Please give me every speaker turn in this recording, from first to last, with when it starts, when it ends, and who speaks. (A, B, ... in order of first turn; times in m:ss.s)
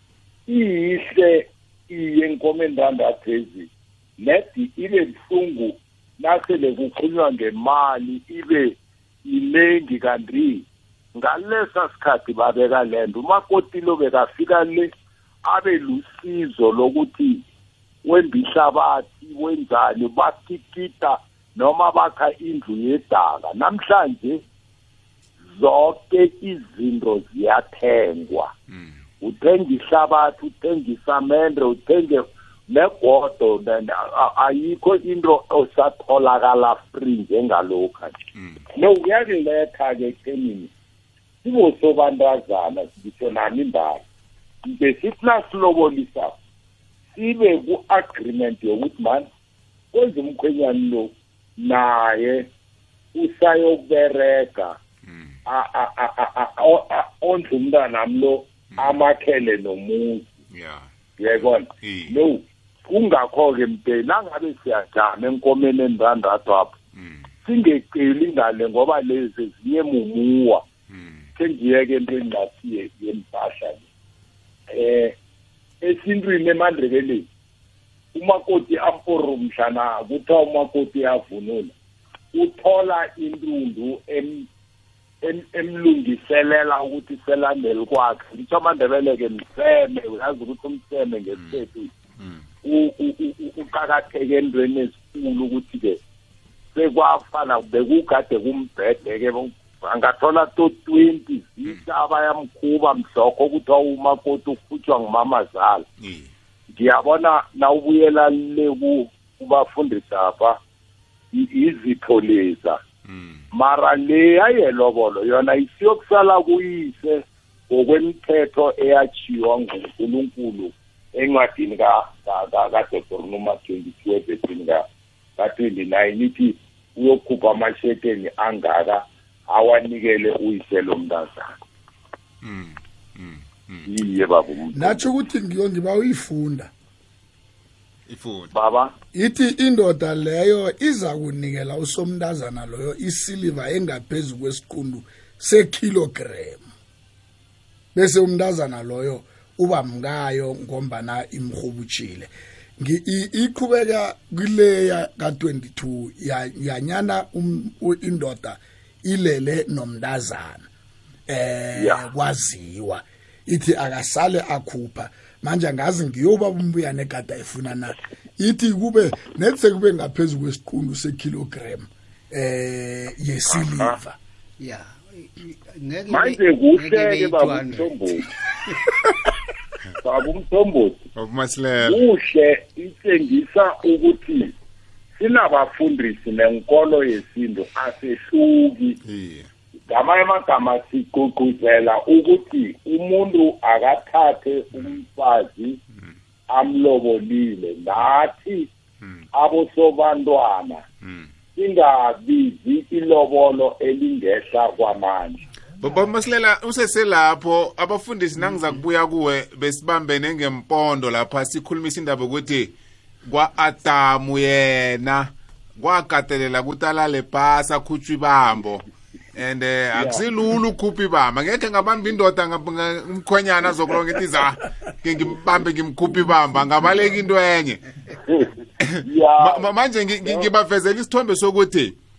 0:00.5-0:10.6 A
0:11.2-0:14.9 A
0:15.4-0:17.4 A
0:18.0-0:24.4 A
0:25.5-0:28.5 A
0:28.7-0:29.0 B
0:29.2-0:38.2 A
0:38.4-0:38.6 B
0:38.7-0:40.7 A
0:41.4-0:44.0 A
0:44.6-0:46.3 A
0:47.1-0:49.3 A
0:49.9-0:52.5 A
0:53.1-0:54.8 A
0:55.1-0:55.3 B
0:55.5-1:00.3 A
1:00.5-1:00.9 B
1:01.2-1:06.8 A
1:01.8-1:02.2 B
1:07.0-1:07.3 B
1:07.4-1:10.6 A
1:10.9-1:11.3 B
1:11.4-1:13.8 A
1:14.7-1:15.1 A
1:15.8-1:17.3 A
1:18.2-1:21.7 A
1:22.3-1:24.5 A
1:25.2-1:31.9 A
1:32.6-1:36.0 A
1:36.8-1:45.9 A
1:46.0-1:46.3 B
1:46.7-1:50.6 A
1:51.3-1:52.8 A
1:53.0-1:53.4 B
1:53.5-2:04.8 A
2:05.4-2:11.5 A
2:12.4-2:13.9 B
2:13.8-2:15.0 A
2:14.7-2:16.7 C
2:18.1-2:18.5 B
2:18.5-2:18.9 A
2:19.1-2:26.7 C
2:27.9-2:40.7 C
2:41.3-2:54.2 C
2:41.8-2:42.1 A
2:53.5-2:54.0 A
2:54.6-2:57.9 D
2:56.1-2:58.3 A
3:00.0-3:01.1 A
3:01.2-3:02.0 B
3:01.8-3:04.5 A
3:05.2-3:09.0 A
3:09.0-3:09.5 B
3:09.9-3:15.8 A
3:16.5-3:18.7 A
3:19.3-3:20.8 A
3:21.0-3:21.3 B
3:21.6-3:25.4 A
3:25.8-3:47.8 B
3:48.2-3:49.7 A
3:48.8-3:52.0 B
3:50.2-3:50.5 A